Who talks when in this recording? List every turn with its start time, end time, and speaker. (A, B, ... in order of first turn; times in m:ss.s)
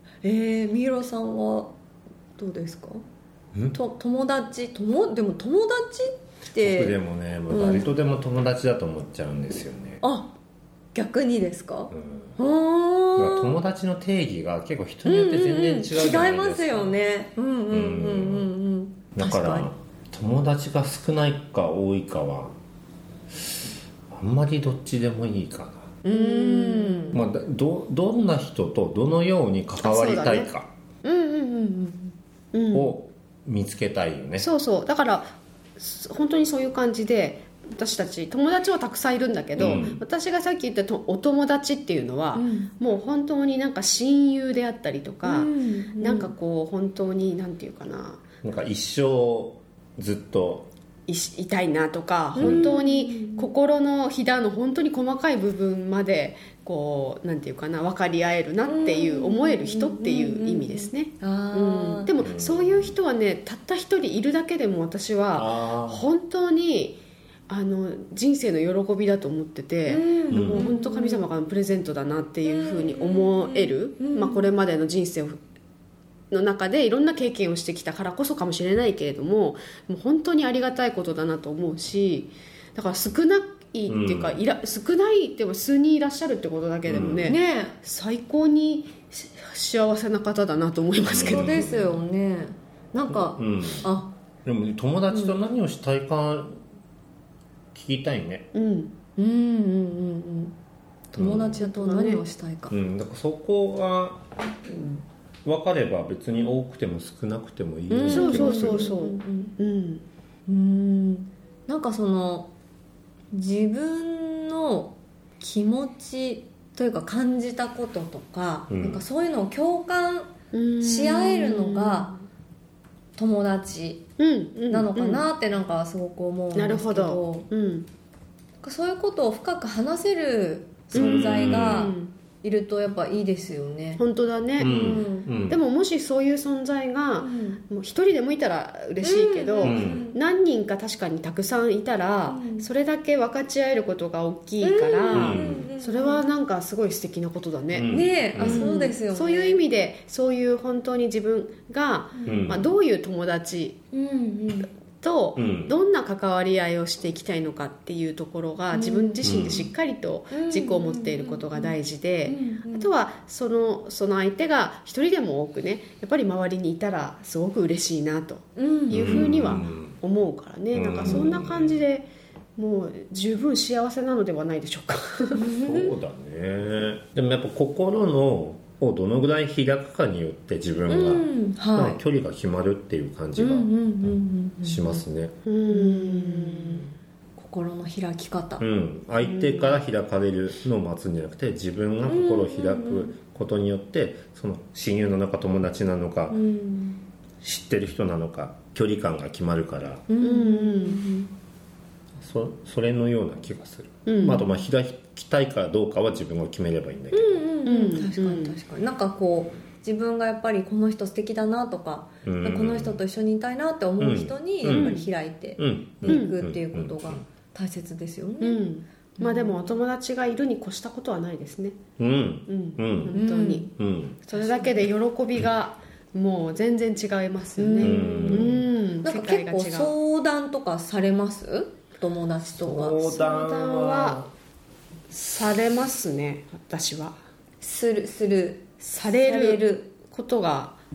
0:00.2-0:01.7 A
0:02.4-0:03.0 A
0:03.7-0:07.9 A
0:06.6-0:10.0 B
0:10.0-0:10.3 A
0:10.9-0:13.6 A
0:11.9-0:12.4 B
0:13.2-0:17.0 B
0:15.0-0:19.7 A
0:17.7-0:18.5 B
0:19.1-0:22.6 B
0:24.1-0:25.9 B
0:26.0-0:27.2 A
0:26.0-0:27.2 C
0:27.1-0:30.7 B
0:29.8-0:30.5 C
0:31.0-0:32.1 A
0:32.5-0:33.0 C
0:32.7-0:34.5 B
0:34.4-0:48.2 C
0:39.6-0:40.0 B
0:42.3-0:42.7 A
0:45.2-0:46.3 A
0:48.4-0:50.7 B
0:51.1-1:15.4 C
0:52.3-0:53.5 A
0:52.4-0:52.7 B
0:58.6-1:02.1 A
1:02.2-1:03.0 B
1:05.3-1:06.0 B
1:09.9-1:11.2 A
1:10.3-1:10.7 B
1:12.4-1:14.5 A
1:16.3-1:31.6 C
1:23.9-1:24.4 B
1:26.8-1:27.3 B
1:27.2-1:27.7 A
1:31.0-1:32.0 B
1:31.0-1:34.1 A
1:33.1-1:33.9 B
1:34.4-1:36.6 B
1:35.1-1:35.4 A
1:37.7-1:38.5 B
1:38.5-1:38.9 C
1:39.2-1:40.5 A
1:41.1-1:42.7 A
1:41.1-1:41.6 B
1:41.6-1:42.2 C
1:42.7-1:48.9 B
1:47.9-1:49.5 A
1:48.1-1:50.0 C
1:50.5-1:52.5 A
1:53.3-2:00.3 A
1:58.7-1:59.0 B
2:00.5-2:02.2 C
2:00.8-2:02.1 A
2:03.2-2:04.0 A
2:04.2-2:05.3 C
2:04.7-2:07.5 A
2:06.5-2:07.9 C
2:08.6-2:14.0 A
2:10.9-2:11.9 B
2:10.9-2:12.1 C
2:14.0-2:33.8 C
2:14.6-2:15.6 B
2:14.6-2:15.3 A
2:17.2-2:17.6 A
2:19.0-2:20.2 A
2:19.6-2:20.0 B
2:22.3-2:22.7 A
2:24.6-2:26.2 A
2:25.1-2:25.6 B
2:27.7-2:28.7 B
2:27.9-2:29.6 A
2:32.2-2:32.6 A
2:32.2-2:32.7 B
2:33.9-2:34.7 A
2:35.0-2:55.4 C
2:35.4-2:35.8 B
2:38.7-2:39.3 A
2:39.2-2:39.7 B
2:40.3-2:42.9 A
2:48.6-2:49.6 A
2:48.9-2:50.0 B
2:50.7-2:51.8 B
2:51.0-2:51.3 A
2:55.3-2:55.9 A
2:55.6-3:05.3 B
3:00.9-3:02.0 A
3:03.4-3:05.0 A
3:05.4-3:06.9 C
3:05.7-3:06.8 A
3:07.4-3:08.6 A
3:08.6-3:16.4 B
3:09.2-3:09.8 C
3:12.0-3:13.1 A
3:16.3-3:17.0 A
3:17.4-3:20.0 B
3:20.1-3:21.3 A
3:20.2-3:21.0 C
3:22.2-3:27.4 B
3:24.0-3:24.5 C
3:27.1-3:38.6 A
3:27.6-3:28.6 C
3:32.2-3:33.0 B
3:34.0-3:35.0 B
3:34.6-3:35.1 C
3:35.6-3:37.2 B
3:36.0-3:36.4 C
3:38.4-3:41.8 C
3:39.2-3:39.8 A
3:42.0-3:43.2 B
3:42.4-3:43.7 C
3:43.1-3:43.7 A
3:43.7-3:44.2 B
3:44.2-3:49.9 C
3:44.3-3:44.9 A
3:47.6-3:53.0 A
3:47.8-3:48.6 B
3:52.5-3:54.3 B
3:53.0-3:54.2 C
3:55.1-3:57.1 C
3:57.6-3:59.9 A
3:58.9-4:00.8 C